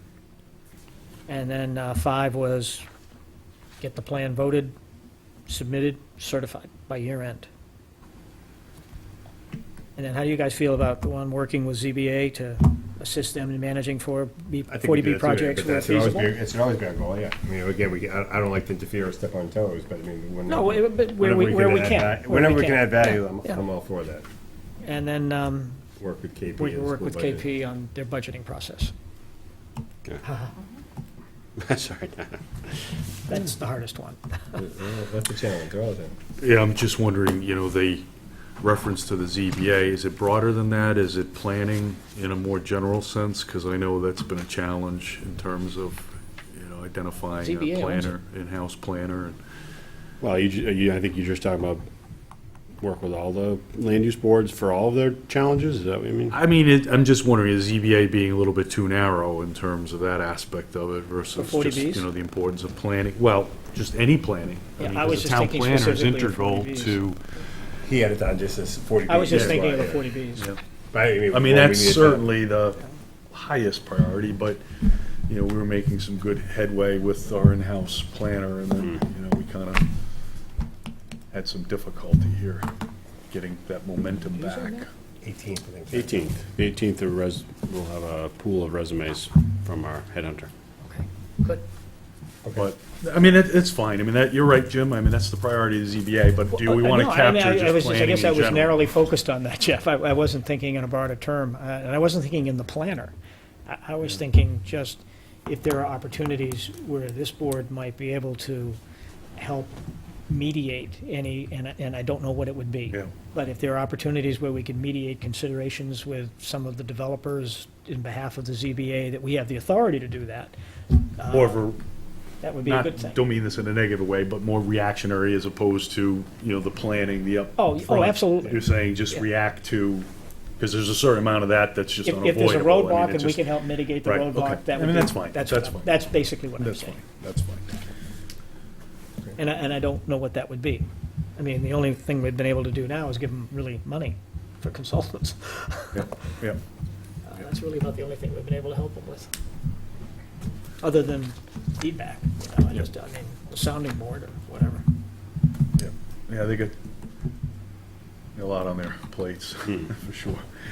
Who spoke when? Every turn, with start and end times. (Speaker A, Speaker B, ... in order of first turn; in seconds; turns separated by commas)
Speaker A: 1.3-2.9, Speaker A: 3.8-4.7, Speaker A: 5.5-7.5, Speaker A: 10.0-16.3, Speaker B: 14.7-24.2, Speaker A: 20.5-23.6, Speaker A: 24.8-25.8, Speaker B: 26.0-27.4, Speaker A: 26.6-28.9, Speaker A: 30.2-30.5, Speaker C: 31.6-32.9, Speaker A: 33.3-34.6, Speaker B: 34.5-36.1, Speaker D: 36.4-38.1, Speaker D: 38.6-49.4, Speaker A: 47.4-48.1, Speaker C: 50.2-51.8, Speaker C: 52.8-56.4, Speaker D: 56.3-67.2, Speaker A: 61.4-62.1, Speaker A: 64.8-67.0, Speaker B: 67.8-70.1, Speaker A: 69.0-70.5, Speaker D: 69.3-69.6, Speaker B: 70.9-72.3, Speaker D: 71.3-74.6, Speaker D: 75.3-79.9, Speaker D: 81.3-82.7, Speaker D: 83.3-84.9, Speaker A: 84.4-84.8, Speaker B: 85.2-86.2, Speaker C: 85.9-90.5, Speaker A: 90.8-91.6, Speaker B: 92.4-92.7, Speaker D: 92.5-98.9, Speaker A: 96.5-103.1, Speaker A: 103.7-108.8, Speaker A: 109.4-120.5, Speaker A: 121.2-121.6, Speaker D: 121.3-121.8, Speaker A: 122.4-123.2, Speaker D: 122.6-130.1, Speaker A: 127.6-128.6, Speaker D: 130.6-135.9, Speaker A: 132.0-137.0, Speaker D: 136.6-137.8, Speaker A: 139.3-146.0, Speaker D: 145.9-146.6, Speaker A: 147.2-149.3, Speaker A: 150.8-154.8, Speaker D: 155.8-156.8, Speaker D: 158.3-160.5